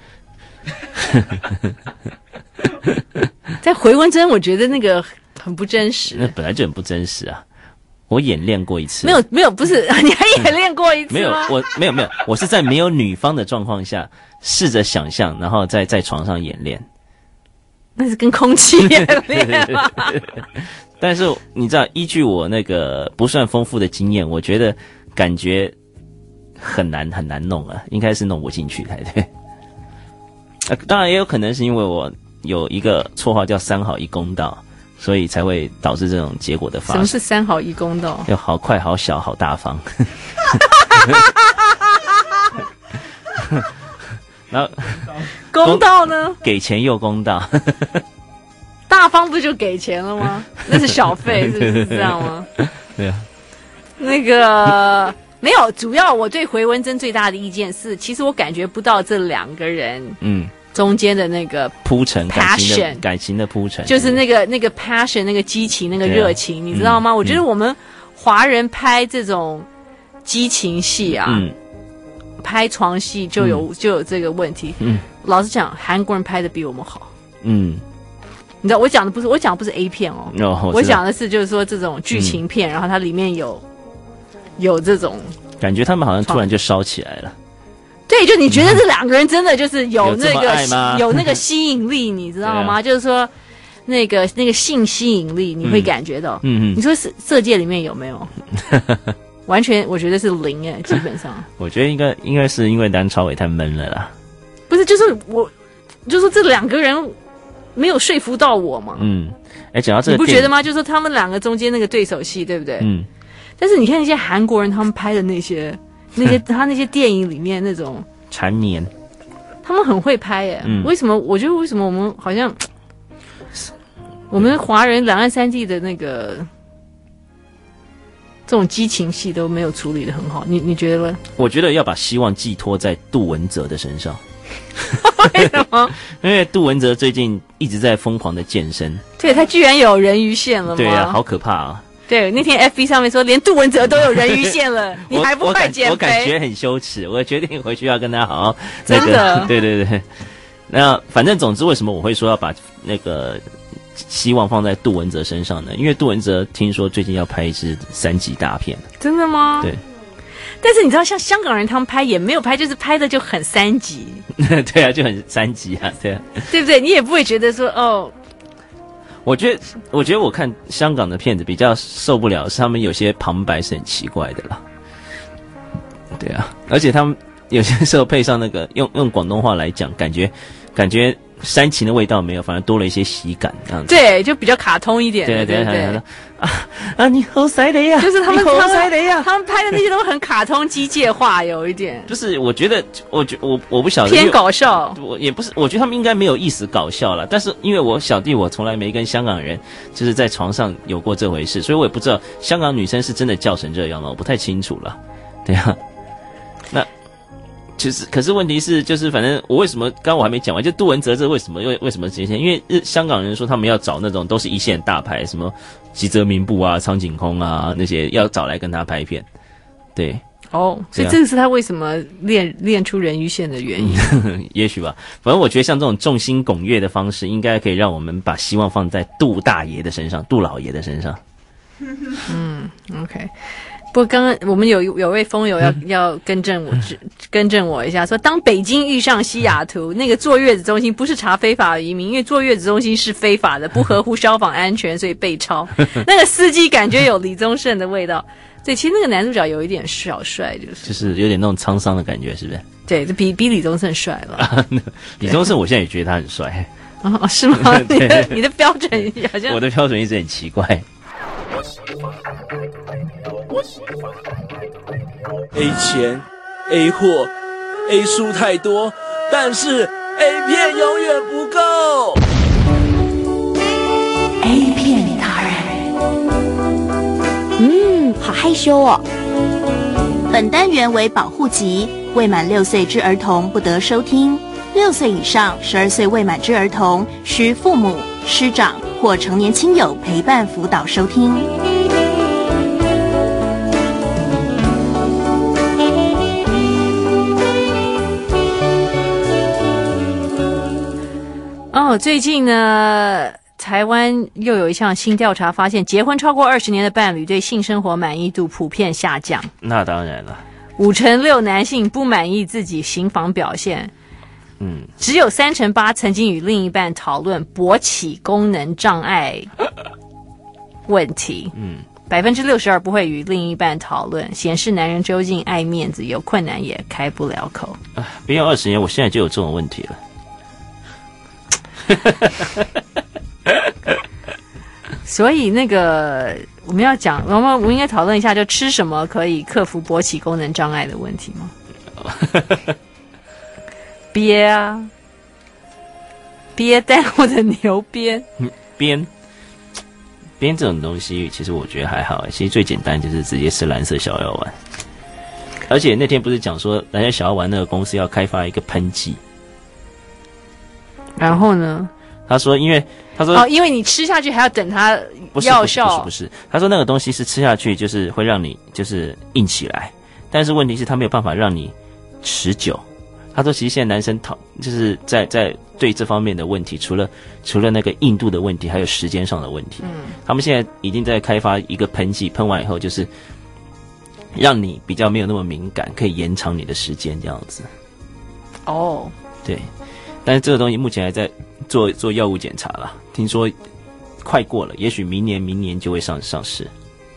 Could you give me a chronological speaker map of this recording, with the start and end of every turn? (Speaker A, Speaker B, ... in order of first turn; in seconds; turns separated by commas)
Speaker A: 0.9-1.7, Speaker B: 3.6-6.3, Speaker A: 6.1-7.4, Speaker A: 8.1-9.2, Speaker B: 9.0-11.5, Speaker A: 11.1-16.8, Speaker B: 18.0-20.2, Speaker A: 18.8-25.7, Speaker A: 26.6-29.3, Speaker A: 30.6-37.1, Speaker B: 36.9-38.3, Speaker A: 38.2-41.1, Speaker B: 40.9-41.7, Speaker A: 44.5-48.0, Speaker B: 45.5-46.4, Speaker B: 48.9-52.5, Speaker A: 50.7-53.3, Speaker B: 54.0-60.2, Speaker A: 60.2-60.5, Speaker B: 60.7-61.8, Speaker A: 61.8-64.2, Speaker B: 62.3-63.0, Speaker B: 63.9-69.7, Speaker A: 66.0-67.4, Speaker B: 70.2-71.4, Speaker A: 71.1-71.5, Speaker B: 72.4-77.1, Speaker A: 73.4-73.6, Speaker A: 74.8-75.0, Speaker A: 77.4-77.8, Speaker B: 78.6-83.6, Speaker A: 80.3-81.0, Speaker A: 82.1-82.4, Speaker B: 84.6-85.4, Speaker A: 85.6-87.3, Speaker B: 88.1-93.3, Speaker A: 90.0-91.4, Speaker A: 92.4-92.8, Speaker B: 93.8-98.3, Speaker A: 95.6-96.8, Speaker A: 98.7-99.1, Speaker B: 99.5-101.5, Speaker A: 101.6-104.1, Speaker B: 104.7-105.5, Speaker B: 106.0-107.1, Speaker B: 107.7-109.1, Speaker A: 109.0-110.5, Speaker B: 110.0-112.9, Speaker A: 112.8-113.1, Speaker B: 113.6-118.1, Speaker A: 118.3-118.9, Speaker B: 119.6-122.7, Speaker A: 120.6-120.9, Speaker B: 124.3-126.5, Speaker B: 128.5-131.2, Speaker A: 131.3-134.2, Speaker A: 134.8-139.0, Speaker B: 135.0-135.9, Speaker B: 139.2-141.2, Speaker A: 140.7-141.8, Speaker B: 142.1-146.3, Speaker A: 144.1-150.1, Speaker B: 148.9-149.5, Speaker A: 150.7-153.4, Speaker A: 153.9-158.9, Speaker B: 159.0-159.7, Speaker B: 160.6-164.2, Speaker A: 164.3-166.5, Speaker B: 166.5-168.1, Speaker A: 169.2-174.6, Speaker A: 176.1-184.0, Speaker B: 183.9-186.0, Speaker A: 185.2-189.3, Speaker B: 188.0-192.1, Speaker A: 192.1-205.8, Speaker B: 194.0-195.0, Speaker A: 207.8-219.3, Speaker A: 219.9-220.2, Speaker B: 220.5-224.1, Speaker A: 223.8-231.2, Speaker B: 232.2-233.3, Speaker B: 233.9-251.1, Speaker A: 250.8-252.7, Speaker B: 252.9-254.5, Speaker A: 254.4-256.7, Speaker B: 257.0-259.6, Speaker A: 257.5-258.4, Speaker A: 259.2-260.9, Speaker C: 265.5-267.3, Speaker C: 267.9-272.2, Speaker D: 274.4-275.7, Speaker D: 277.6-279.0, Speaker E: 280.3-291.5, Speaker B: 301.7-309.5, Speaker A: 309.6-310.4, Speaker B: 310.8-313.9, Speaker A: 314.6-314.9, Speaker B: 315.0-319.5, Speaker B: 320.9-321.5, Speaker A: 321.5-321.8, Speaker B: 322.1-327.8, Speaker A: 327.9-330.0, Speaker A: 331.9-332.6, Speaker A: 333.5-333.7, Speaker B: 335.0-341.5, Speaker A: 342.0-342.7, Speaker B: 344.1-344.9, Speaker B: 346.6-348.2, Speaker A: 348.4-349.1, Speaker A: 350.4-354.6, Speaker A: 355.7-359.2, Speaker B: 361.2-361.9, Speaker A: 362.3-363.4, Speaker B: 363.3-366.1, Speaker A: 365.3-383.1, Speaker B: 379.8-380.1, Speaker A: 384.3-387.7, Speaker B: 388.6-389.1, Speaker A: 389.4-389.7, Speaker A: 390.2-393.5, Speaker A: 394.2-396.7